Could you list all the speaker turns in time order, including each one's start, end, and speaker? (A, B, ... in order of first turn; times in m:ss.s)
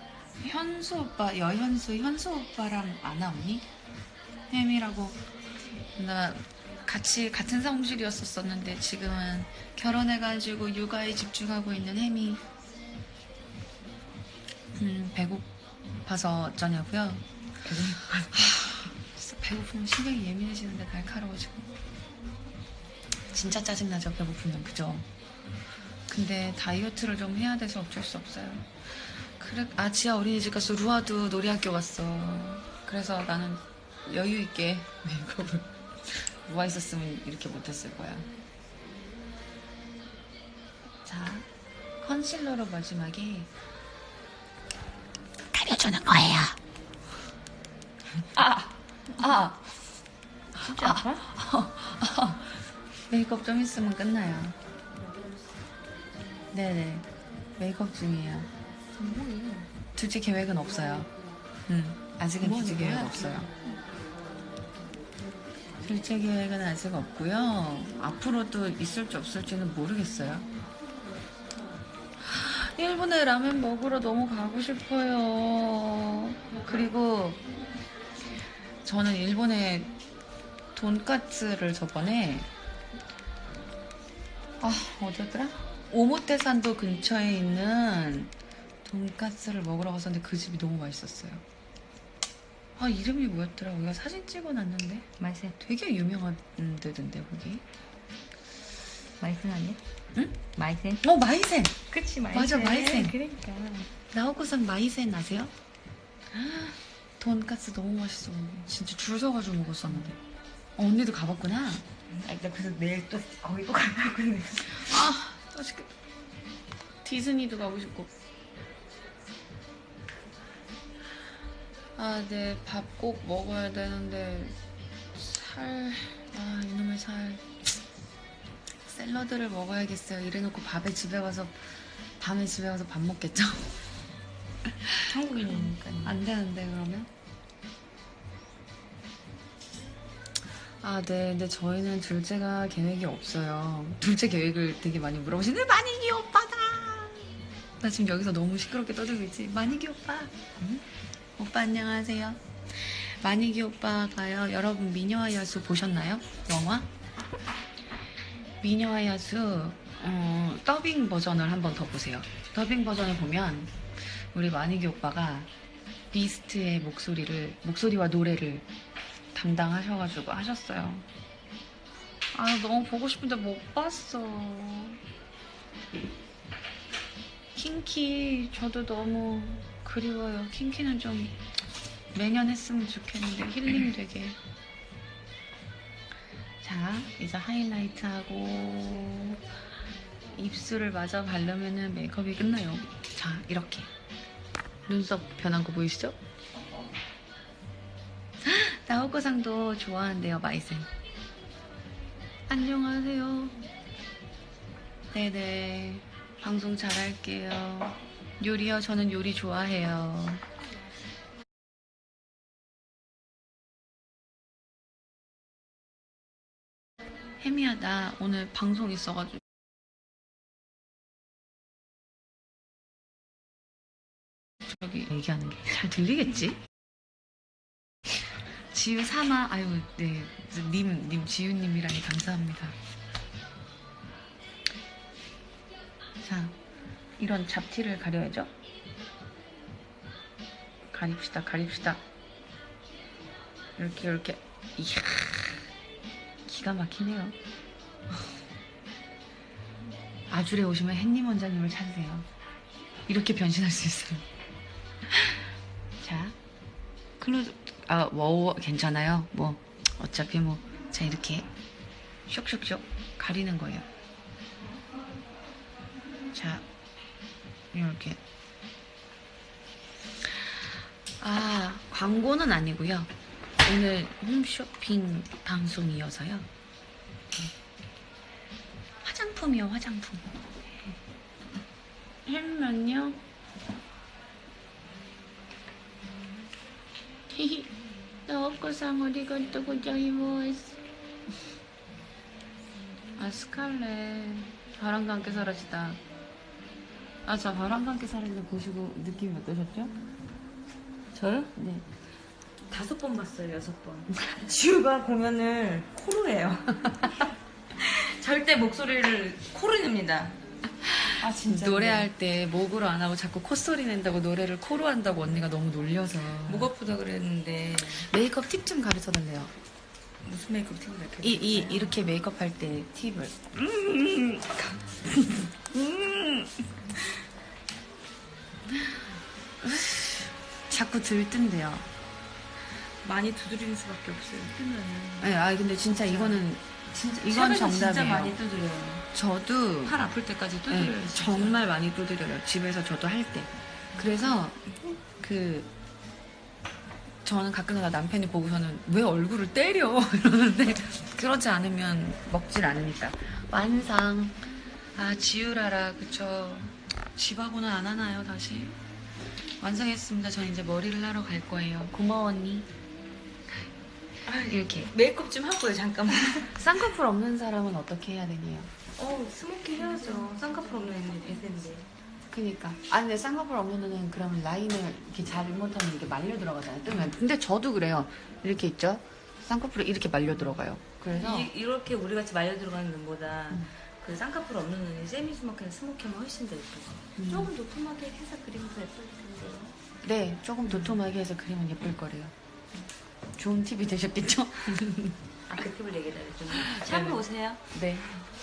0:00.4-0:03.6 A
0:04.5-0:05.2 A
0:06.0-0:12.4 A
0:14.8-0:15.5 A
0:16.0-0:17.2 A
0:17.6-0:18.5 B
0:18.3-0:21.7 A
0:23.3-0:25.1 A
0:26.1-0:38.3 A
0:41.0-0:41.5 A
0:42.0-0:43.5 A
0:45.5-0:46.6 A
0:48.3-0:49.7 A
0:50.6-0:51.2 B
0:50.6-0:52.5 A
0:53.1-0:54.6 A
0:56.5-0:57.0 A
0:57.6-0:58.5 A
0:58.9-0:59.7 B
1:00.0-1:01.1 A
1:01.7-1:03.5 A
1:02.4-1:03.8 B
1:05.8-1:10.5 A
1:12.2-1:17.4 A
1:18.8-1:19.9 A
1:20.8-1:22.5 A
1:24.6-1:28.3 A
1:28.8-1:31.4 A
1:32.8-1:35.1 A
1:35.2-1:35.6 B
1:35.6-1:37.6 A
1:39.2-1:39.8 B
1:40.1-1:40.4 A
1:40.5-1:41.0 B
1:41.0-1:41.8 A
1:41.9-1:43.9 B
1:42.3-1:43.2 A
1:44.1-1:45.5 A
1:46.3-1:50.2 A
1:50.8-1:51.8 A
1:52.2-1:54.9 B
1:54.7-1:55.9 A
1:57.0-1:58.1 A
2:02.0-2:04.6 A
2:05.1-2:07.5 A
2:08.8-2:13.7 A
2:14.8-2:17.1 A
2:15.1-2:16.2 B
2:20.8-2:27.3 A
2:27.8-2:30.8 A
2:31.4-2:36.9 A
2:38.6-2:45.5 A
2:46.1-2:48.7 A
2:49.3-2:51.0 A
2:52.3-2:55.0 A
2:57.5-3:01.4 A
3:02.1-3:04.4 A
3:06.6-3:09.4 A
3:10.3-3:13.9 A
3:14.9-3:16.2 A
3:18.4-3:20.9 A
3:22.5-3:23.6 A
3:25.1-3:30.4 A
3:37.4-3:39.4 A
3:44.6-3:46.6 A
3:48.6-3:52.8 A
3:56.2-3:56.6 A
3:57.2-3:58.5 A
4:00.9-4:02.0 A
4:03.8-4:05.7 A
4:06.5-4:07.4 A
4:10.3-4:12.3 A
4:13.1-4:14.2 A
4:15.1-4:15.4 A
4:16.0-4:16.4 A
4:17.2-4:21.5 A
4:22.3-4:23.8 A
4:26.3-4:26.6 A
4:27.7-4:28.2 A
4:31.2-4:33.1 A
4:33.6-4:36.5 A
4:39.0-4:40.3 A
4:42.2-4:43.2 A
4:47.3-4:47.7 A
4:48.3-4:50.8 A
4:53.2-4:56.0 A
4:57.2-4:59.9 A
5:01.1-5:01.5 B
5:01.5-5:01.8 A
5:02.7-5:10.4 B
5:10.8-5:16.7 A
5:11.2-5:12.1 B
5:16.4-5:18.1 B
5:17.9-5:19.5 A
5:20.2-5:21.9 B
5:21.2-5:23.6 A
5:23.6-5:25.5 B
5:25.7-5:26.4 A
5:29.6-5:31.9 A
5:33.0-5:35.3 B
5:35.2-5:38.4 A
5:35.8-5:36.4 B
5:37.2-5:39.1 B
5:39.1-5:40.0 A
5:39.8-5:41.6 B
5:40.7-5:44.6 A
5:45.2-5:45.7 A
5:47.2-5:54.4 A
5:54.9-5:58.8 A
5:59.6-6:02.7 A
6:04.2-6:06.6 B
6:04.4-6:04.9 A
6:06.5-6:08.7 A
6:09.0-6:11.9 B
6:12.3-6:21.5 A
6:21.1-6:29.8 B
6:27.2-6:27.5 A
6:30.0-6:32.3 A
6:33.4-6:35.2 A
6:35.5-6:37.6 B
6:36.5-6:38.2 A